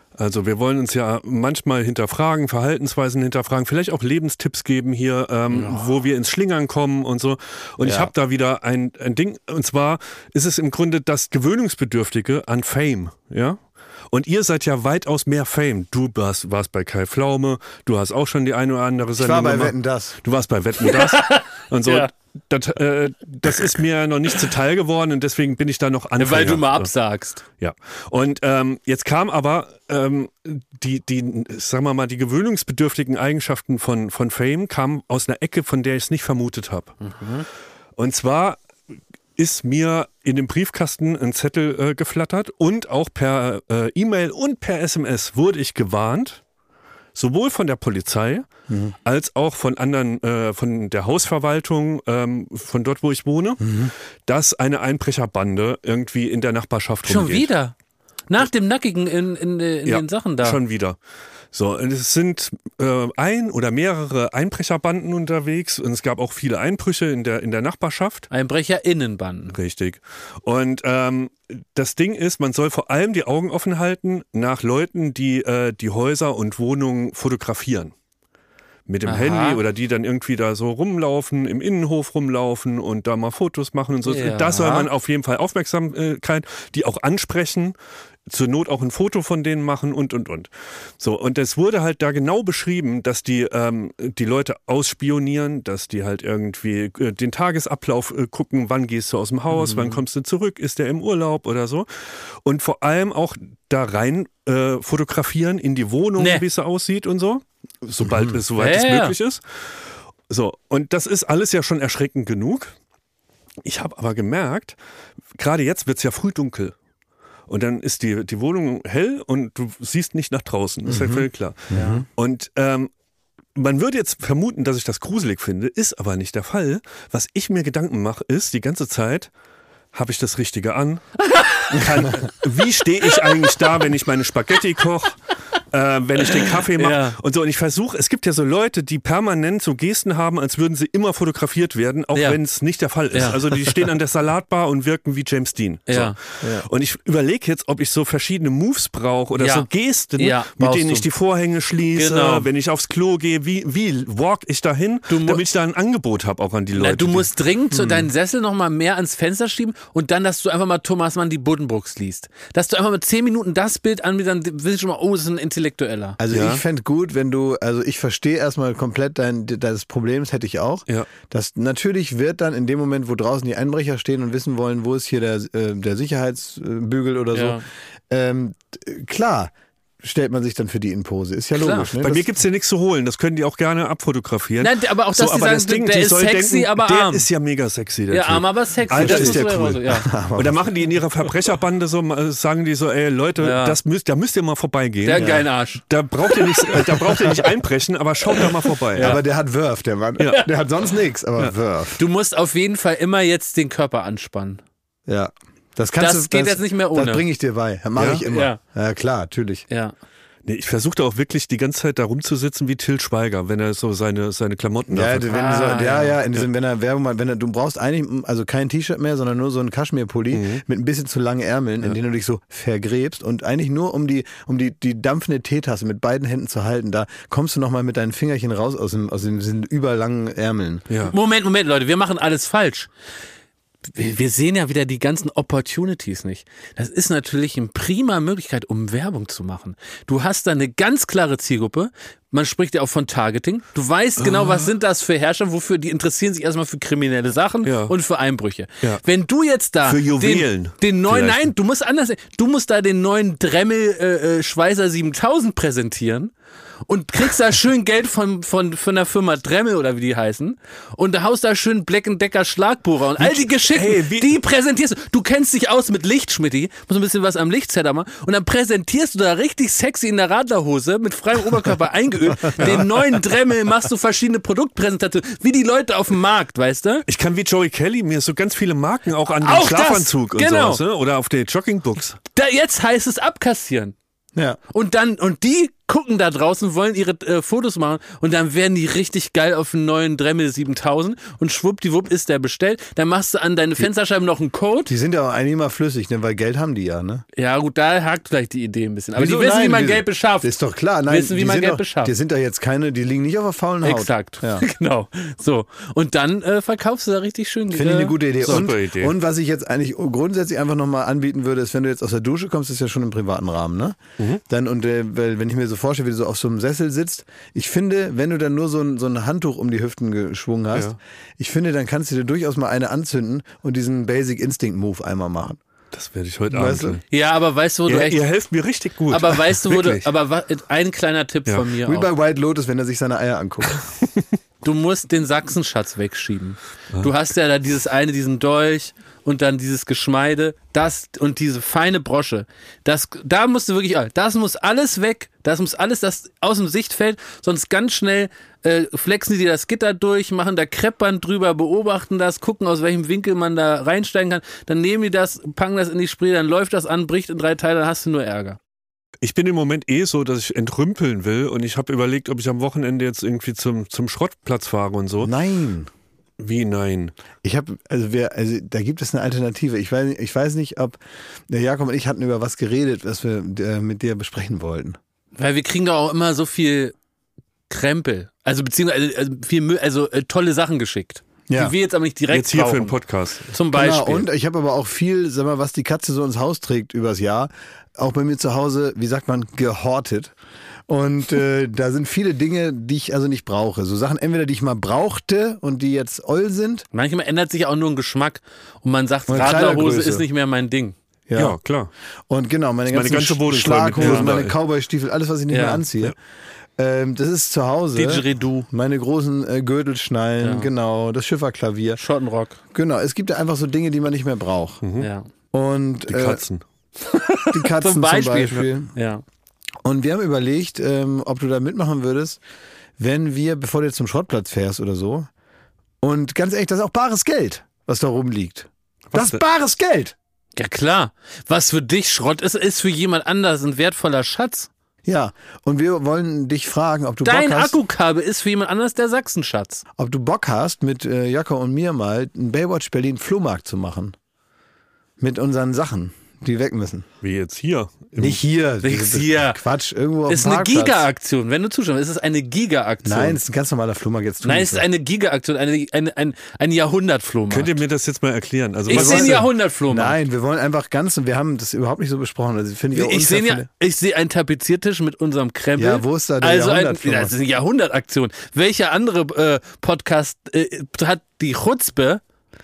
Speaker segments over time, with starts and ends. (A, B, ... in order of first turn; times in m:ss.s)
0:00.2-0:13.6 A
0:05.5-0:05.9 B
0:07.8-0:08.1 C
0:14.1-0:26.9 A
0:19.2-0:20.2 C
0:20.8-0:22.1 B
0:26.2-0:27.4 B
0:27.6-0:37.0 A
0:37.0-0:37.5 B
0:38.0-0:38.6 A
0:39.4-0:46.4 A
0:47.2-0:48.5 A
0:48.7-0:49.0 C
0:49.0-0:53.7 A
0:53.6-0:53.9 C
0:54.3-0:57.5 A
0:57.1-0:57.7 B
0:58.3-1:00.6 B
0:59.9-1:01.0 A
1:01.5-1:08.3 A
1:08.3-1:09.6 B
1:09.5-1:17.9 A
1:18.9-1:27.8 A
1:19.1-1:19.6 B
1:24.0-1:24.9 B
1:28.3-1:52.7 A
1:39.5-1:40.0 B
1:46.2-1:46.4 B
1:48.1-1:48.4 C
1:48.6-1:49.2 B
1:53.6-1:54.8 A
1:55.4-1:56.8 A
1:57.5-2:02.9 A
2:00.8-2:02.1 C
2:01.7-2:02.0 B
2:03.6-2:09.3 A
2:09.9-2:37.3 A
2:11.2-2:12.1 B
2:13.1-2:13.7 B
2:16.4-2:17.2 B
2:22.1-2:22.4 B
2:23.1-2:23.8 B
2:25.9-2:26.2 B
2:26.4-2:26.7 C
2:29.4-2:31.1 B
2:32.0-2:32.5 B
2:35.1-2:35.4 B
2:36.8-2:46.2 B
2:37.7-2:38.1 C
2:46.2-3:02.3 C
2:46.3-2:46.6 A
2:57.3-2:57.6 B
3:01.6-3:01.9 B
3:01.9-3:19.2 A
3:04.6-3:07.3 B
3:08.1-3:10.1 B
3:08.9-3:10.6 C
3:13.4-3:13.8 B
3:15.0-3:17.1 B
3:17.2-3:17.4 C
3:18.3-3:19.2 B
3:19.0-3:22.0 C
3:22.0-3:24.6 B
3:25.1-3:29.6 C
3:26.0-3:27.2 B
3:28.0-3:28.3 A
3:28.2-3:28.6 B
3:29.7-3:30.0 B
3:30.5-3:35.3 A
3:34.9-3:50.9 C
3:35.3-3:36.2 B
3:40.3-3:40.6 A
3:51.1-3:52.9 B
3:53.9-4:16.3 B
4:04.2-4:04.7 A
4:07.6-4:07.9 A
4:09.8-4:11.5 A
4:16.9-4:37.0 B
4:23.2-4:24.3 A
4:37.1-4:42.2 A
4:39.4-4:40.8 B
4:42.4-4:44.0 B
4:44.7-4:54.9 B
4:54.9-4:57.2 C
4:57.4-5:00.5 B
4:59.2-5:04.7 C
5:01.1-5:02.1 B
5:03.8-5:08.6 B
5:07.7-5:25.6 C
5:08.4-5:09.2 A
5:25.9-5:27.0 A
5:26.5-5:27.0 C
5:27.1-5:28.2 B
5:27.9-5:30.1 A
5:29.1-5:32.1 B
5:31.8-5:33.7 C
5:34.6-5:58.6 B
5:59.2-6:05.3 A
6:05.2-6:05.9 C
6:06.4-6:07.1 A
6:07.4-6:15.0 C
6:15.4-6:17.0 B
6:17.7-6:23.0 B
6:21.5-6:21.7 C
6:22.3-6:23.5 A
6:23.5-6:24.3 B
6:23.7-6:30.3 C
6:30.9-6:36.8 C
6:36.9-6:41.0 B
6:39.3-6:40.3 C
6:41.3-6:41.6 C
6:41.4-6:41.9 A
6:42.3-6:46.2 C
6:42.9-6:44.6 A
6:44.0-6:44.3 B
6:45.5-6:45.8 B
6:46.8-6:52.0 C
6:48.0-6:48.7 B
6:50.4-6:50.7 B
6:52.0-6:52.6 B
6:52.7-6:54.8 C
6:54.8-6:55.1 A
6:55.0-6:55.3 B
6:55.5-6:56.4 C
6:56.1-6:56.6 A
6:57.0-6:59.2 B
6:57.5-6:58.9 C
6:59.8-7:02.4 C
7:03.0-7:05.3 C
7:06.0-7:10.2 C
7:09.1-7:09.4 A
7:10.6-7:14.7 B
7:15.0-7:17.8 C
7:17.2-7:19.8 B
7:20.0-7:24.2 C
7:25.2-7:27.1 C
7:27.2-7:28.4 A
7:28.2-7:31.1 C
7:28.8-7:29.6 B
7:30.3-7:33.4 B
7:33.0-7:34.9 C
7:34.4-7:37.8 B
7:37.5-7:39.5 A
7:38.9-7:40.2 B
7:38.9-7:43.7 C
7:42.9-7:52.2 B
7:45.8-7:47.4 C